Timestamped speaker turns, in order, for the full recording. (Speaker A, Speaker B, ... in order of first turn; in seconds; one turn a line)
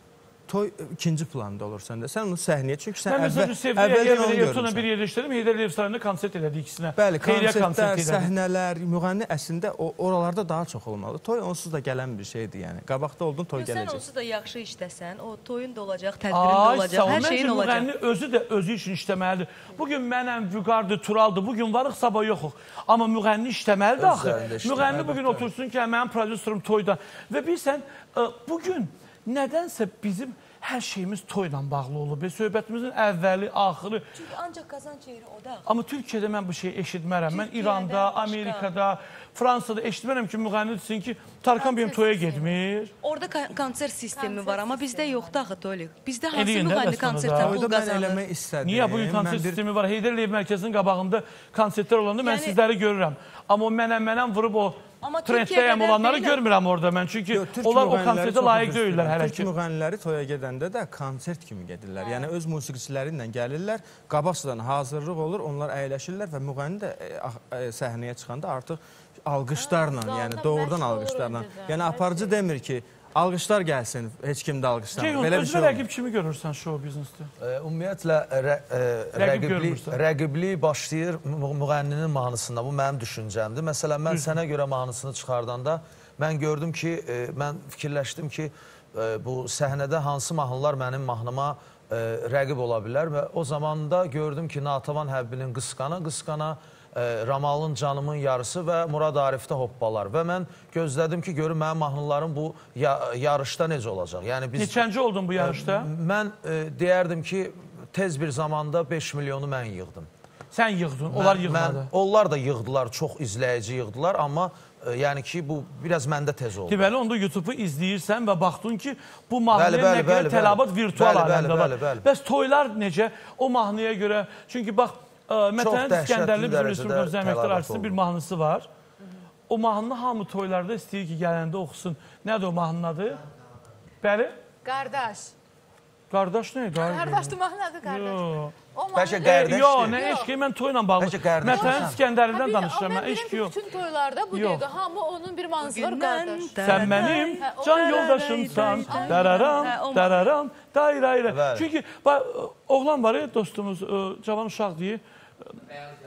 Speaker A: 0.5-4.9
Speaker B: 3.0-8.3
Speaker A: 7.0-14.1
Speaker C: 13.5-17.9
Speaker B: 16.3-34.1
Speaker D: 24.0-25.5
Speaker C: 34.1-35.6
Speaker B: 35.7-42.9
Speaker C: 37.3-38.7
Speaker E: 41.6-42.6
Speaker C: 43.0-48.2
Speaker E: 44.2-45.3
Speaker B: 46.3-47.6
Speaker A: 47.4-49.6
Speaker B: 48.6-59.5
Speaker C: 52.2-52.6
Speaker C: 55.0-56.4
Speaker A: 57.3-75.8
Speaker E: 69.5-72.4
Speaker B: 75.0-77.3
Speaker D: 77.4-104.8
Speaker B: 79.2-80.0
Speaker B: 104.6-105.9
Speaker D: 105.4-110.1
Speaker B: 110.5-111.9
Speaker D: 111.1-116.9
Speaker B: 116.7-128.7
Speaker D: 119.5-122.1
Speaker D: 125.6-128.0
Speaker B: 129.5-133.2
Speaker B: 134.0-134.4
Speaker E: 134.6-135.3
Speaker B: 136.1-138.5
Speaker E: 136.8-140.3
Speaker D: 138.9-140.1
Speaker B: 139.2-143.5
Speaker D: 141.0-142.0
Speaker E: 141.4-148.2
Speaker B: 144.3-144.6
Speaker C: 145.6-150.4
Speaker B: 146.6-155.0
Speaker E: 148.9-149.8
Speaker D: 151.3-151.7